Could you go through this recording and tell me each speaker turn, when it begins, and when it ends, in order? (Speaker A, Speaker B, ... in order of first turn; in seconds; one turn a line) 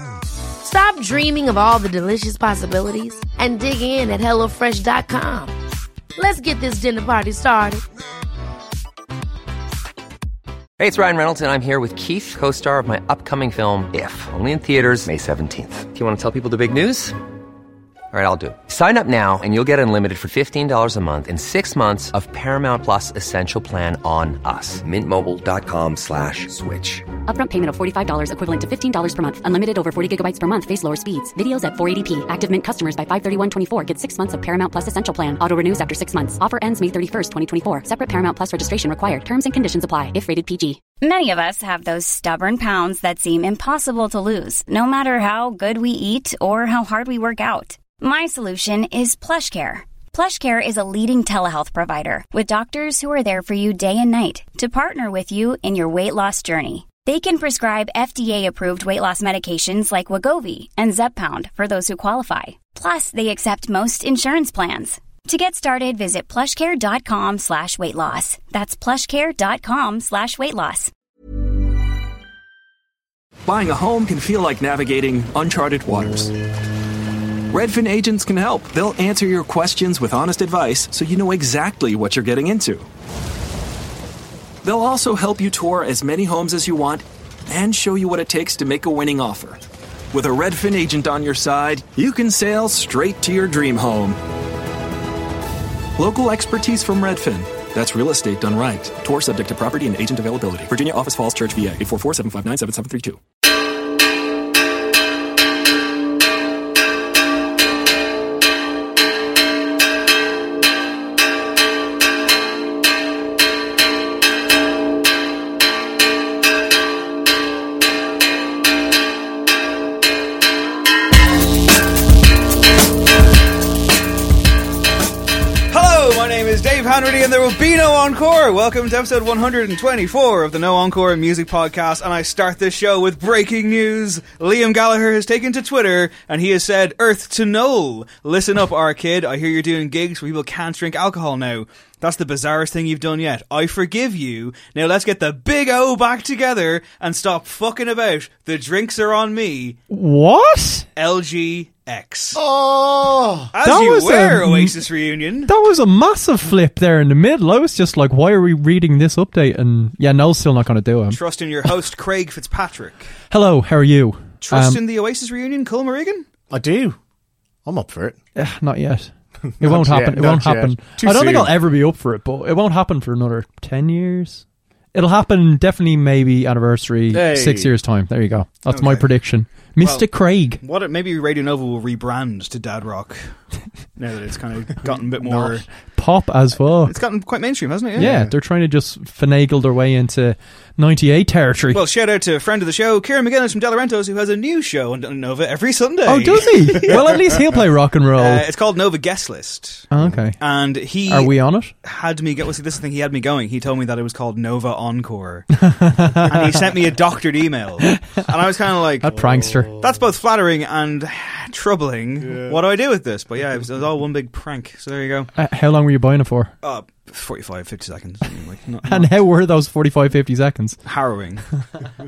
Speaker A: 0.6-5.5
Speaker A: 6.2-7.8
Speaker B: 10.8-17.1
Speaker B: 18.1-27.0
Speaker C: 27.2-40.8
Speaker D: 41.0-70.9
Speaker E: 73.5-76.3
Speaker E: 77.5-82.9
Speaker E: 84.6-89.6
Speaker E: 90.1-94.2
Speaker E: 96.0-103.2
Speaker F: 125.7-149.8
Speaker G: 149.9-150.8
Speaker F: 150.9-152.4
Speaker H: 152.3-153.5
Speaker F: 153.5-155.5
Speaker G: 153.6-154.7
Speaker G: 155.5-161.2
Speaker F: 161.1-163.1
Speaker G: 163.3-164.8
Speaker F: 164.4-166.2
Speaker H: 166.5-167.0
Speaker H: 167.6-168.2
Speaker G: 168.3-180.6
Speaker H: 169.5-171.5
Speaker H: 177.1-177.7
Speaker F: 178.7-179.1
Speaker F: 179.8-183.3
Speaker F: 184.0-185.6
Speaker H: 185.2-185.6
Speaker G: 185.9-186.9
Speaker F: 186.8-188.2
Speaker H: 187.9-188.3
Speaker G: 188.0-191.8
Speaker F: 191.7-197.1
Speaker G: 196.1-198.4
Speaker F: 198.2-209.1
Speaker G: 199.9-200.4
Speaker G: 201.0-201.7
Speaker G: 205.6-206.6
Speaker G: 207.9-208.2
Speaker G: 209.0-209.7
Speaker H: 209.0-210.0
Speaker F: 209.8-215.3
Speaker H: 212.2-212.6
Speaker G: 215.4-216.5
Speaker F: 216.6-219.1
Speaker G: 218.8-220.8
Speaker F: 220.8-221.4